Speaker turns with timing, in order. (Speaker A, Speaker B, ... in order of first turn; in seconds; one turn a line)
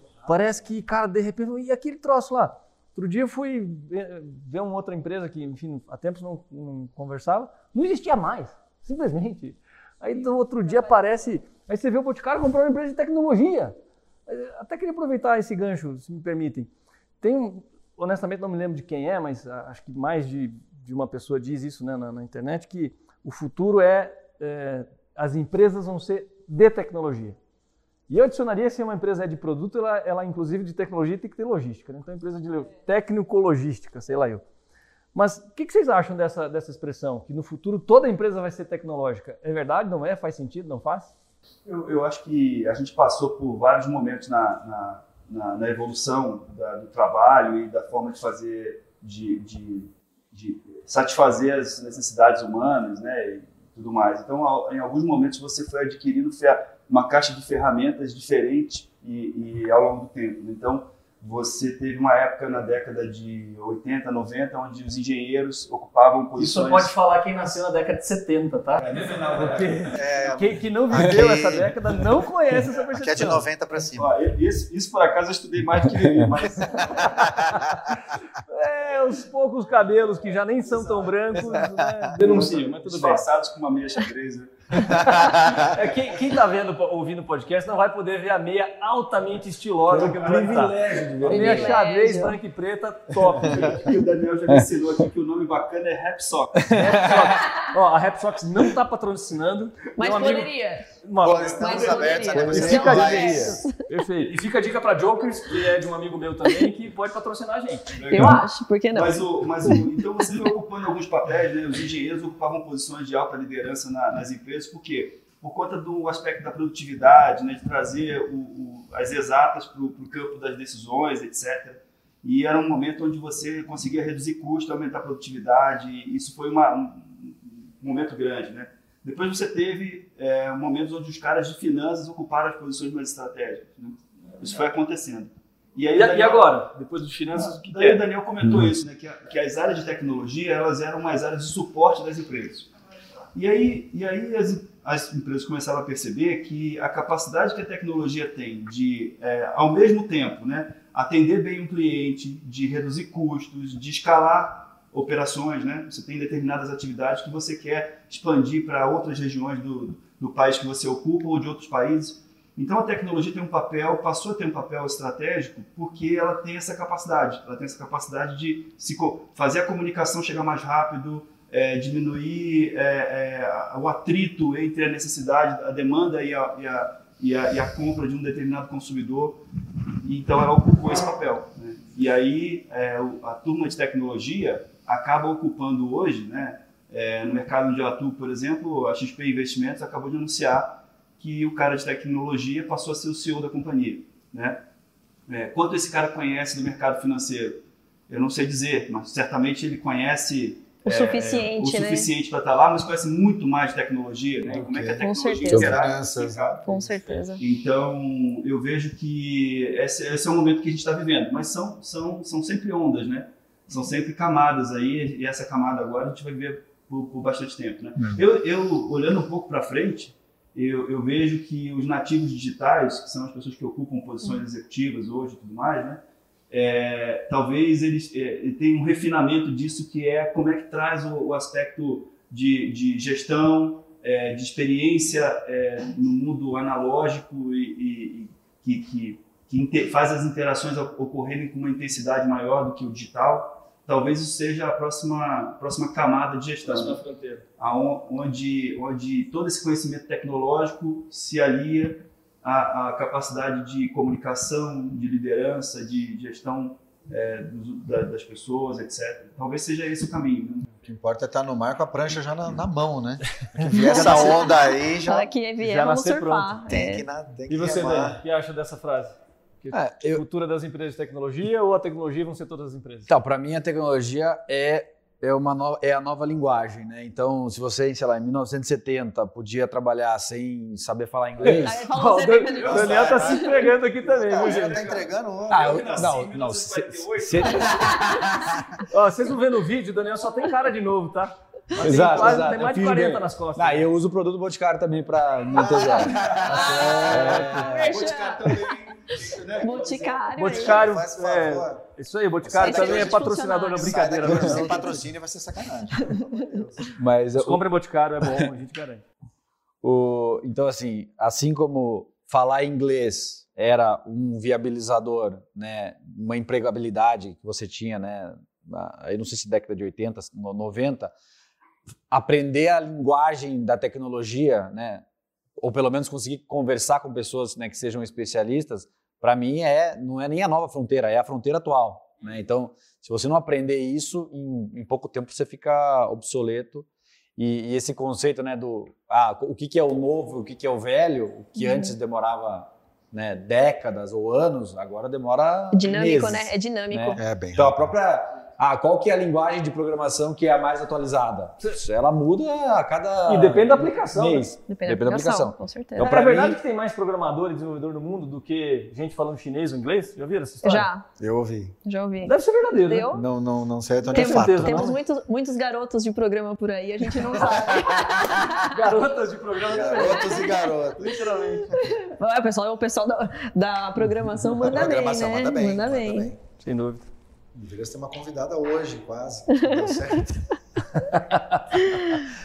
Speaker A: 0.3-13.8
Speaker A: 14.3-16.7
Speaker A: 17.2-27.4
Speaker A: 28.1-34.4
Speaker A: 35.1-41.1
Speaker B: 41.7-66.9
Speaker A: 66.4-73.4
Speaker B: 68.8-70.3
Speaker C: 69.9-71.8
Speaker C: 72.9-74.1
Speaker B: 73.9-77.5
Speaker D: 76.0-76.3
Speaker C: 76.7-78.0
Speaker A: 78.4-83.2
Speaker C: 81.4-82.1
Speaker B: 82.1-85.1
Speaker C: 84.9-85.7
Speaker A: 84.9-93.9
Speaker D: 89.9-91.8
Speaker B: 90.2-91.1
Speaker E: 91.3-92.4
Speaker B: 93.4-96.7
Speaker D: 96.6-97.3
Speaker A: 96.7-108.3
Speaker E: 100.0-100.9
Speaker C: 101.2-103.6
Speaker E: 101.5-103.8
Speaker D: 102.6-102.9
Speaker B: 108.0-136.6
Speaker E: 108.1-110.3
Speaker A: 135.9-138.0
Speaker B: 137.3-142.7
Speaker D: 138.4-138.7
Speaker B: 143.3-179.4
Speaker B: 180.0-194.6
Speaker B: 195.3-247.0
Speaker E: 200.8-202.1
Speaker C: 204.5-206.8
Speaker E: 205.0-205.8
Speaker E: 206.6-207.4
Speaker A: 246.6-247.4
Speaker B: 247.6-260.7
Speaker C: 260.8-265.3
Speaker E: 263.8-267.1
Speaker A: 263.9-264.4
Speaker A: 265.6-266.6
Speaker C: 266.7-268.2
Speaker A: 267.5-273.1
Speaker D: 269.7-270.2
Speaker D: 273.1-281.9
Speaker A: 281.4-285.0
Speaker E: 281.5-283.6
Speaker B: 282.6-288.0
Speaker C: 282.7-286.1
Speaker D: 285.5-288.1
Speaker E: 287.7-288.0
Speaker C: 287.9-288.8
Speaker A: 288.9-293.9
Speaker D: 291.8-297.9
Speaker C: 295.5-301.8
Speaker B: 296.0-296.7
Speaker E: 296.5-300.9
Speaker A: 296.7-297.7
Speaker B: 297.6-300.3
Speaker A: 300.4-305.1
Speaker C: 302.4-306.9
Speaker E: 302.6-304.5
Speaker E: 306.0-306.4
Speaker D: 307.0-307.6
Speaker A: 307.3-309.0
Speaker D: 309.8-321.1
Speaker D: 322.1-325.1
Speaker D: 325.6-356.6
Speaker E: 341.6-341.9
Speaker E: 345.7-347.2
Speaker C: 347.1-347.8
Speaker A: 353.3-354.6
Speaker E: 354.7-356.1
Speaker A: 356.0-360.9
Speaker E: 360.6-361.1
Speaker C: 361.2-361.8
Speaker E: 361.9-363.2
Speaker A: 362.2-363.1
Speaker C: 363.1-365.0
Speaker A: 364.1-365.0
Speaker E: 364.1-368.8
Speaker C: 367.4-368.5
Speaker A: 368.6-371.7
Speaker C: 369.7-371.8
Speaker E: 369.8-370.6
Speaker E: 371.7-376.3
Speaker C: 374.6-376.4
Speaker A: 376.6-377.1
Speaker C: 377.6-380.9
Speaker E: 379.6-380.0
Speaker A: 381.0-381.6
Speaker E: 381.7-382.2